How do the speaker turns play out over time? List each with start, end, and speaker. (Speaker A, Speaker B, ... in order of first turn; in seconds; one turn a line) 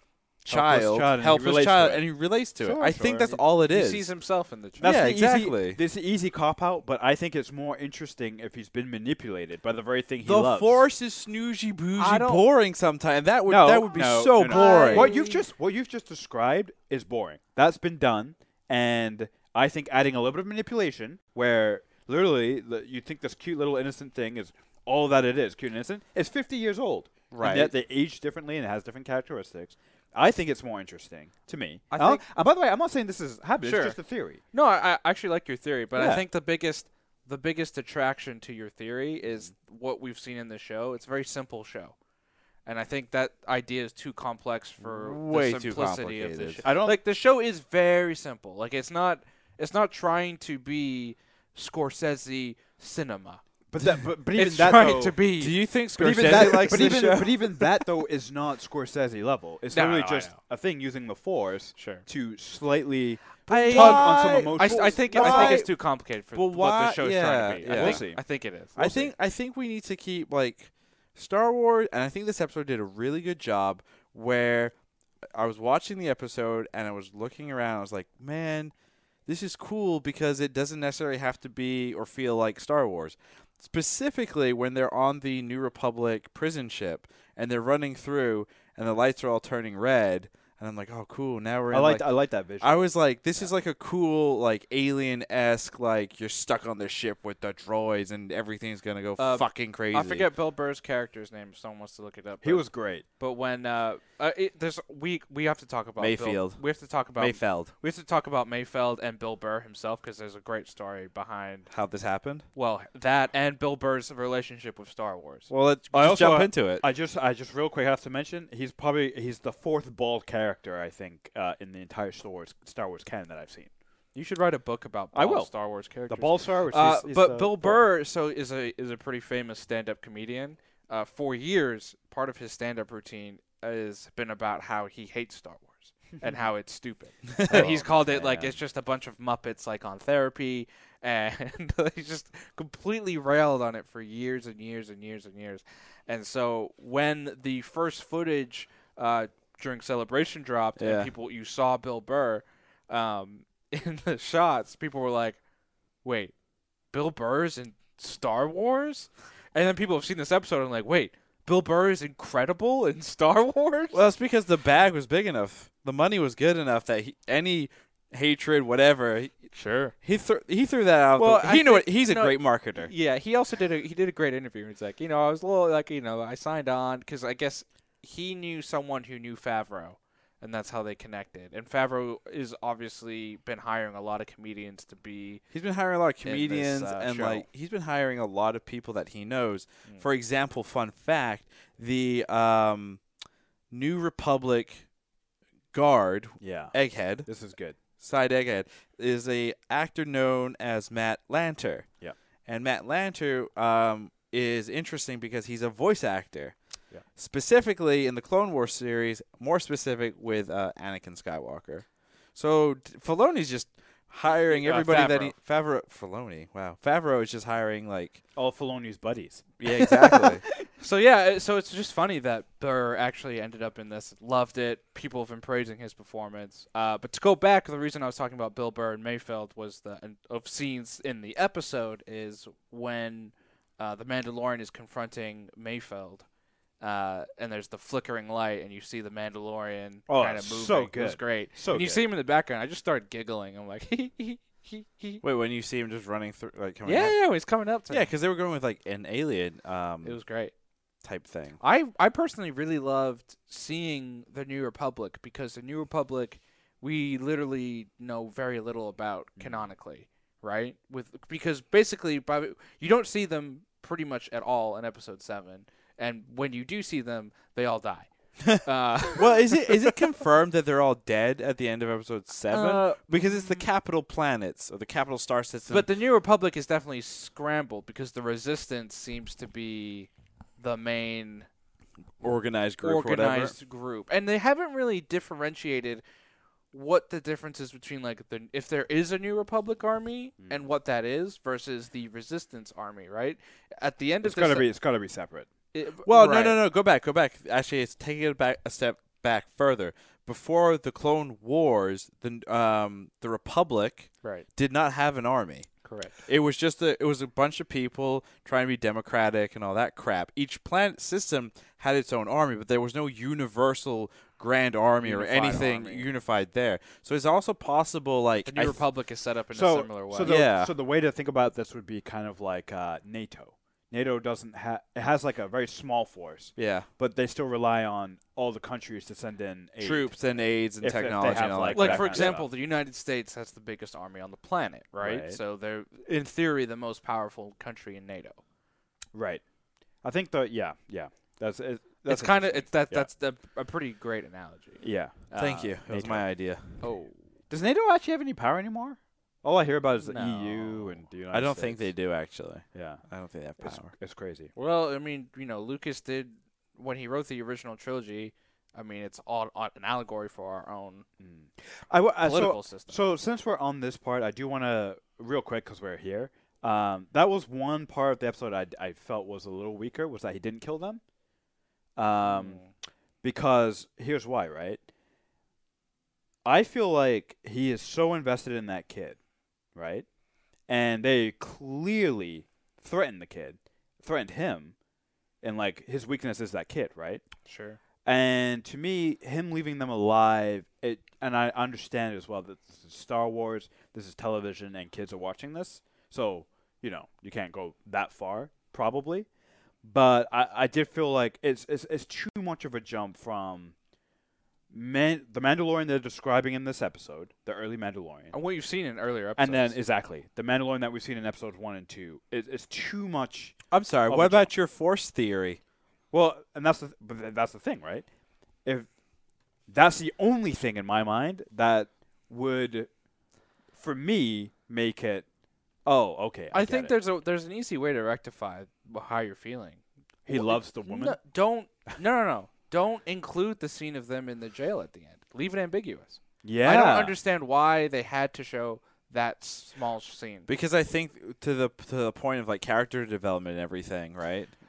Speaker A: 0.5-4.1
Speaker B: 0.5-3.4
Speaker C: 3.7-5.0
Speaker B: 4.8-10.8
Speaker A: 4.8-5.8
Speaker A: 10.2-15.1
Speaker C: 12.0-12.4
Speaker B: 13.5-34.4
Speaker C: 14.4-15.4
Speaker A: 27.3-27.7
Speaker C: 31.9-32.2
Speaker C: 33.6-34.0
Speaker C: 34.5-42.0
Speaker B: 36.0-36.2
Speaker C: 42.7-53.4
Speaker A: 44.8-46.6
Speaker B: 46.6-47.0
Speaker B: 53.7-55.2
Speaker C: 54.3-55.6
Speaker A: 55.4-57.8
Speaker B: 56.0-65.7
Speaker C: 59.7-60.4
Speaker C: 61.8-62.0
Speaker A: 63.5-65.7
Speaker C: 63.5-69.1
Speaker A: 66.3-68.1
Speaker B: 67.6-68.2
Speaker A: 68.8-74.8
Speaker A: 75.3-78.7
Speaker A: 79.3-92.1
Speaker B: 91.7-93.5
Speaker A: 92.6-100.3
Speaker C: 99.2-102.7
Speaker B: 102.4-103.0
Speaker C: 103.2-111.7
Speaker A: 106.0-106.6
Speaker A: 107.2-107.7
Speaker A: 111.7-112.5
Speaker C: 112.5-115.5
Speaker A: 115.5-116.8
Speaker B: 115.9-123.7
Speaker C: 124.2-155.4
Speaker B: 125.1-125.5
Speaker B: 126.1-127.8
Speaker B: 136.2-136.4
Speaker A: 137.3-137.8
Speaker B: 137.5-138.6
Speaker A: 150.8-151.1
Speaker C: 156.0-156.3
Speaker C: 156.9-164.0
Speaker A: 163.9-172.9
Speaker C: 169.5-169.9
Speaker C: 171.2-185.4
Speaker A: 185.5-193.0
Speaker C: 186.2-187.4
Speaker A: 193.7-194.9
Speaker A: 195.7-197.3
Speaker B: 196.4-197.8
Speaker A: 198.0-201.9
Speaker A: 202.5-206.6
Speaker A: 207.2-218.2
Speaker C: 214.5-215.3
Speaker B: 218.4-219.6
Speaker A: 219.6-220.4
Speaker C: 220.6-236.3
Speaker C: 236.8-245.2
Speaker B: 240.1-242.0
Speaker A: 245.2-247.2
Speaker C: 246.9-248.1
Speaker A: 247.9-250.2
Speaker C: 250.0-250.5
Speaker A: 251.0-251.6
Speaker C: 251.6-269.6
Speaker B: 259.4-259.6
Speaker A: 269.1-275.9
Speaker C: 272.5-273.6
Speaker C: 275.7-281.5
Speaker A: 282.2-283.6
Speaker C: 282.8-286.0
Speaker C: 286.7-294.7
Speaker B: 294.2-295.5
Speaker C: 295.7-296.6
Speaker A: 296.1-305.7
Speaker C: 305.8-306.1
Speaker A: 306.2-318.8
Speaker C: 315.0-316.1
Speaker C: 318.5-320.3
Speaker B: 319.5-330.2
Speaker A: 320.2-320.7
Speaker A: 326.6-326.9
Speaker A: 329.8-332.4
Speaker B: 330.8-332.5
Speaker C: 331.3-338.4
Speaker B: 335.0-335.4
Speaker B: 339.1-339.4
Speaker B: 340.0-343.1
Speaker C: 342.1-345.8
Speaker B: 344.8-345.3
Speaker A: 345.4-346.8
Speaker B: 345.9-346.2
Speaker C: 346.8-347.2
Speaker B: 347.5-351.9
Speaker C: 350.0-351.0
Speaker A: 351.3-353.9
Speaker B: 352.7-353.0
Speaker B: 353.6-354.5
Speaker C: 354.6-361.1
Speaker B: 361.2-371.0
Speaker C: 362.2-363.0
Speaker B: 372.0-372.6
Speaker C: 372.2-372.7
Speaker B: 373.2-374.8
Speaker B: 376.4-379.2
Speaker B: 379.8-380.1
Speaker B: 380.7-384.8
Speaker B: 385.4-387.2
Speaker C: 387.5-387.8
Speaker B: 388.0-399.3
Speaker B: 399.8-403.8
Speaker B: 404.7-408.4
Speaker C: 408.3-409.8
Speaker B: 409.4-414.5
Speaker A: 413.7-415.6
Speaker B: 416.1-418.1
Speaker B: 419.7-422.9
Speaker B: 423.8-425.3
Speaker B: 425.9-426.9
Speaker C: 426.5-440.5
Speaker B: 430.3-431.2
Speaker B: 436.4-437.2
Speaker A: 440.5-444.5